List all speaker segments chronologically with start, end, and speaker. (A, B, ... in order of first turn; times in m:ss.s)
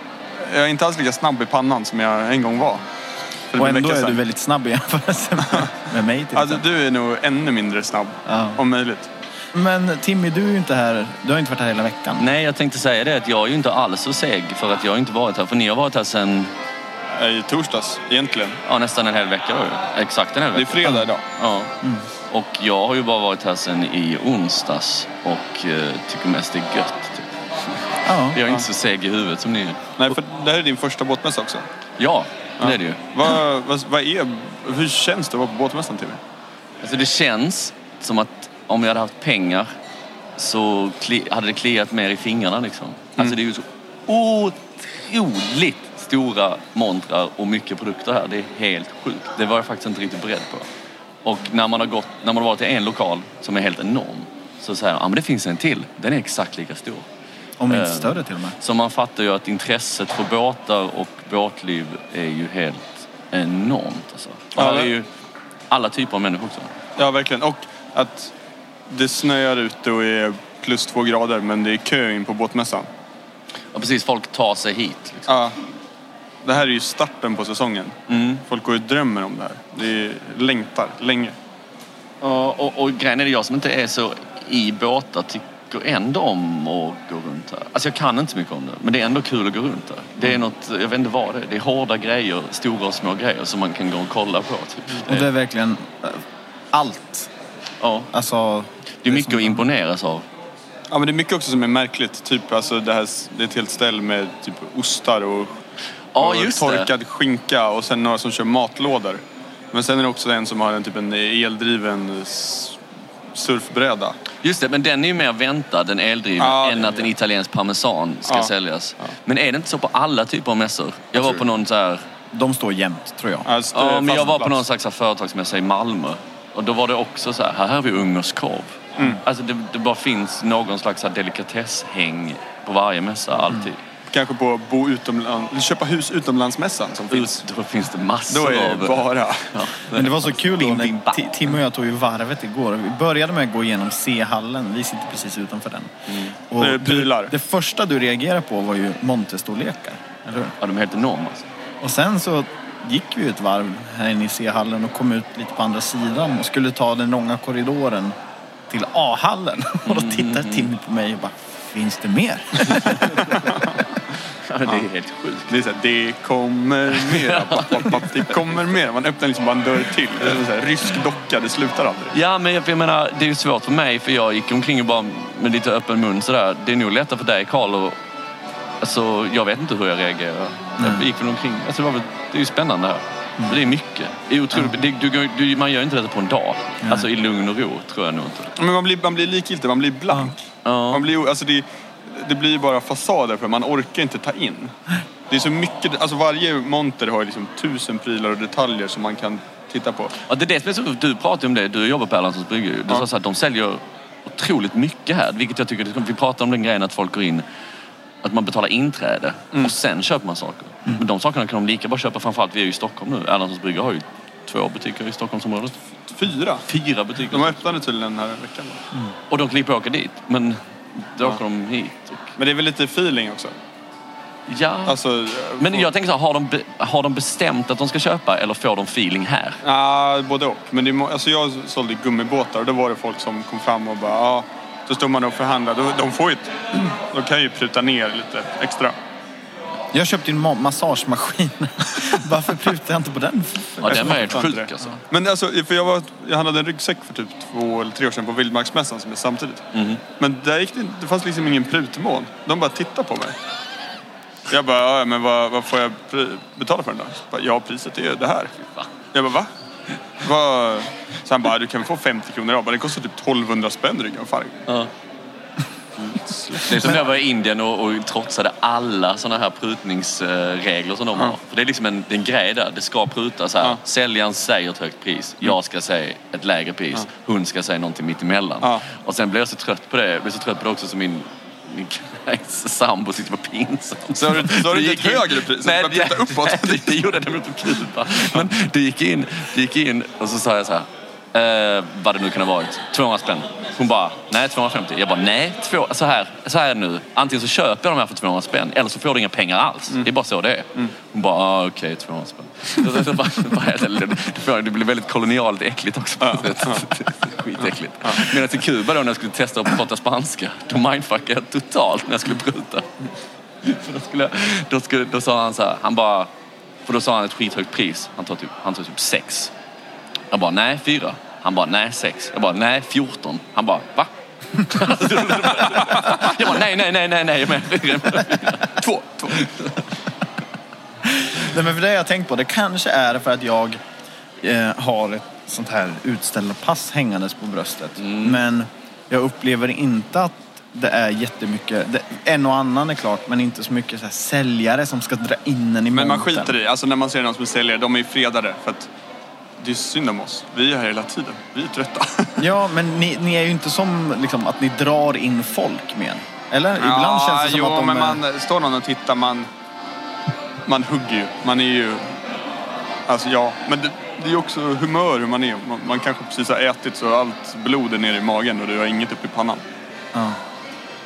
0:00.4-0:02.8 A
0:03.5-0:04.2 A
0:03.6-0:06.6 B
0:06.3-0:09.1 A
0:08.2-0:08.6 B
0:09.5-0:12.2 B
0:12.2-0:16.5 C
0:17.1-0:18.6 A
0:18.6-0:21.7 C
0:20.5-0:21.2 A
0:22.3-0:27.3 C
0:28.0-0:28.4 B
0:28.3-0:29.8 C
0:30.0-0:31.6 A
0:32.0-0:33.0 C
0:32.6-0:36.2 A
0:36.8-0:39.7 C
0:40.4-0:50.7 C
0:51.2-0:57.0 C
0:57.6-0:58.6 B
0:57.7-1:05.1 C
1:04.5-1:04.9 A
1:05.7-1:06.7 C
1:07.0-1:08.3 A
1:08.9-1:12.9 A
1:13.7-1:15.3 C
1:15.3-1:15.5 A
1:16.4-1:18.0 A
1:18.1-1:18.4 C
1:18.5-1:21.3 A
1:22.2-1:35.3 C
1:35.0-1:37.3 B
1:37.8-1:38.1 C
1:38.1-1:39.6 B
1:39.0-1:40.2 C
1:40.9-1:45.6 A
1:46.1-1:46.9 C
1:46.2-1:49.2 A
1:49.7-1:52.8 A
1:53.3-1:54.2 A
1:54.4-2:02.0 C
1:56.4-1:57.1 A
2:01.2-2:01.4 A
2:02.3-2:03.5 B
2:03.4-2:04.6 A
2:03.7-2:13.8 C
2:14.1-2:17.4 A
2:17.1-2:21.5 C
2:18.3-2:19.5 A
2:19.9-2:25.9 B
2:26.1-2:26.3 C
2:26.5-2:30.5 B
2:26.6-2:27.3 A
2:30.6-2:31.5 C
2:31.8-2:38.1 B
2:38.7-2:43.6 B
2:39.8-2:40.7 C
2:42.6-2:43.6 C
2:44.5-2:45.5 C
2:45.5-2:52.1 A
2:46.9-2:48.3 C
2:52.1-2:58.0 C
2:58.8-3:08.5 C
3:00.8-3:01.1 B
3:03.4-3:03.7 B
3:06.8-3:07.1 B
3:08.6-3:14.7 A
3:10.6-3:11.1 C
3:15.3-3:20.1 A
3:20.3-3:27.4 C
3:28.2-3:35.8 C
3:36.1-3:36.6 A
3:36.7-3:37.8 C
3:37.3-3:38.8 A
3:39.3-3:42.3 C
3:42.4-3:43.5 A
3:44.5-3:45.0 C
3:44.8-3:45.9 A
3:45.6-3:49.6 C
3:49.6-3:58.9 A
3:59.9-4:04.5 B
4:03.8-4:05.0 C
4:03.9-4:09.6 A
4:09.7-4:10.0 C
4:10.2-4:13.3 A
4:14.5-4:18.5 A
4:19.1-4:19.5 A
4:20.2-4:24.6 A
4:26.1-5:12.9 C
4:26.1-4:27.0 A
4:44.1-4:47.0 A
5:06.2-5:06.9 A
5:08.0-5:08.3 A
5:13.6-5:16.3 C
5:16.8-5:19.5 C
5:20.3-5:28.8 C
5:25.6-5:26.4 A
5:28.8-5:29.5 A
5:29.4-5:29.7 C
5:31.0-5:33.8 B
5:34.4-5:46.5 B
5:38.0-5:38.4 C
5:45.9-5:48.9 A
5:49.6-5:52.5 A
5:52.4-5:58.2 B
5:56.8-5:59.5 A
6:00.6-6:02.0 A
6:03.1-6:09.6 A